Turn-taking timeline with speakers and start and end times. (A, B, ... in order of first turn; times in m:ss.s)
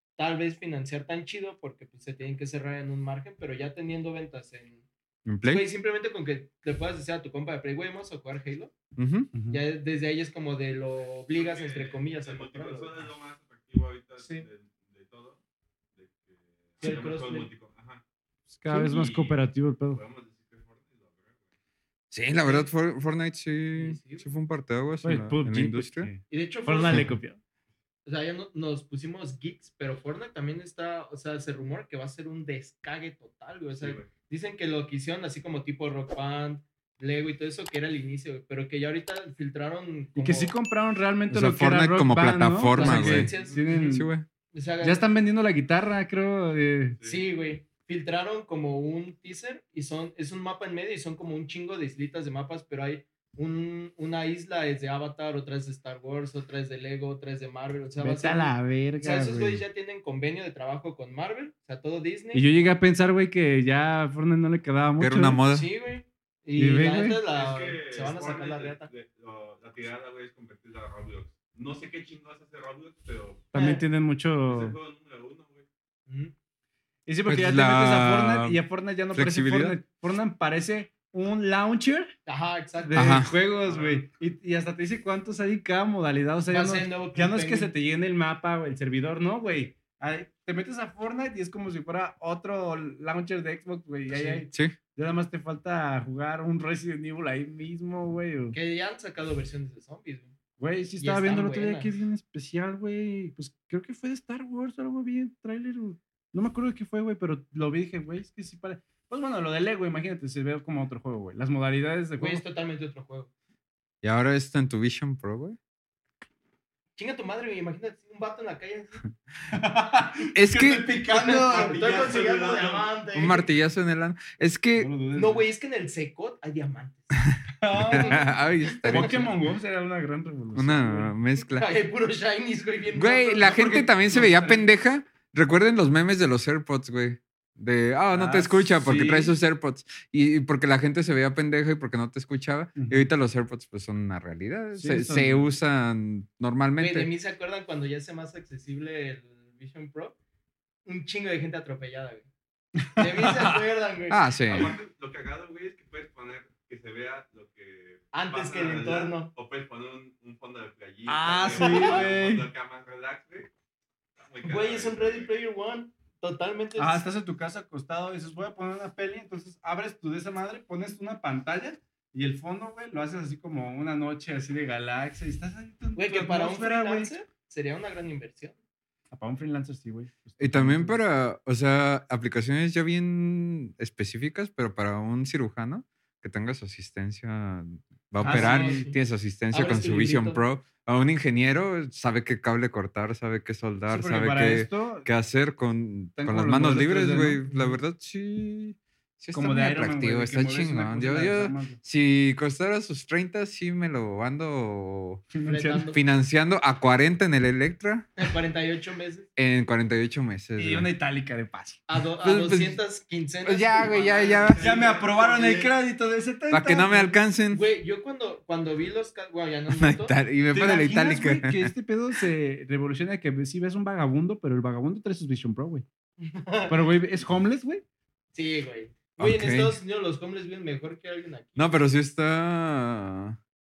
0:00.2-0:04.8 A
0:05.2-0:05.6 B
0:05.4-0:08.7 A
0:09.0-0:09.3 B
0:09.3-0:09.6 C
0:09.5-0:13.1 A
0:11.3-0:15.4 D
0:14.2-0:14.5 A
0:16.0-0:18.0 D
0:16.8-0:17.5 A
0:18.5-0:20.0 C
0:18.7-0:21.4 D
0:22.1-0:26.1 B
0:22.4-0:22.7 A
0:23.8-0:24.3 A
0:25.0-0:27.4 C
0:26.3-0:27.1 A
0:28.0-0:40.5 A
0:33.8-0:34.1 D
0:40.2-0:44.1 C
0:41.3-0:44.3 B
0:42.7-0:44.0 A
0:43.4-0:43.8 D
0:44.5-0:45.0 A
0:44.8-0:47.0 C
0:47.0-0:47.2 D
0:47.0-1:02.5 A
0:58.0-0:59.6 C
1:02.3-1:05.4 C
1:05.0-1:05.7 B
1:05.5-1:08.9 A
1:06.6-1:07.2 C
1:07.3-1:13.5 D
1:13.5-1:14.8 C
1:13.5-1:13.8 A
1:14.5-1:15.7 D
1:16.1-1:16.3 A
1:17.1-1:22.2 C
1:17.3-1:18.6 B
1:19.1-1:19.8 B
1:22.3-1:23.2 A
1:22.8-1:38.6 C
1:23.0-1:23.3 B
1:23.6-1:24.1 D
1:26.5-1:27.7 A
1:34.1-1:34.5 A
1:38.5-1:40.3 A
1:40.6-1:52.4 C
1:41.0-1:41.9 A
1:52.2-1:53.3 A
1:54.0-1:55.6 B
1:57.0-1:59.0 A
1:59.5-2:02.2 C
2:00.3-2:00.9 B
2:01.1-2:03.5 A
2:01.3-2:02.9 D
2:03.1-2:04.9 B
2:04.8-2:05.4 C
2:05.1-2:09.3 A
2:07.6-2:08.2 C
2:07.8-2:09.3 B
2:08.8-2:11.1 C
2:10.6-2:11.7 B
2:11.6-2:13.9 A
2:12.9-2:27.1 B
2:13.4-2:14.7 C
2:18.1-2:19.4 C
2:22.8-2:23.1 C
2:24.8-2:25.5 C
2:26.8-2:30.2 A
2:30.9-2:32.3 A
2:32.8-2:33.6 C
2:33.0-2:34.7 A
2:34.1-2:34.7 B
2:34.5-2:43.5 D
2:38.1-2:39.3 A
2:41.1-2:42.5 C
2:41.6-2:42.1 A
2:44.2-2:45.3 D
2:44.4-2:47.0 A
2:46.8-2:57.1 C
2:56.0-2:58.6 A
2:59.1-3:01.0 C
3:00.4-3:25.3 B
3:08.2-3:09.0 A
3:08.2-3:08.9 C
3:09.5-3:10.4 A
3:13.9-3:15.1 C
3:16.2-3:17.4 C
3:17.5-3:17.8 A
3:19.3-3:21.8 C
3:25.3-3:25.9 C
3:25.4-3:26.0 A
3:25.9-3:28.3 B
3:28.2-3:29.3 A
3:29.4-3:30.9 B
3:30.6-3:31.8 C
3:31.9-3:34.6 A
3:32.2-3:32.8 B
3:33.4-3:34.6 B
3:34.4-3:35.8 D
3:34.6-3:37.2 C
3:36.5-3:37.6 B
3:37.5-3:40.1 A
3:39.7-3:41.7 B
3:40.5-3:45.8 C
3:46.2-3:46.8 A
3:46.7-3:47.8 C
3:48.3-3:51.7 A
3:49.2-3:49.8 B
3:51.6-3:53.4 B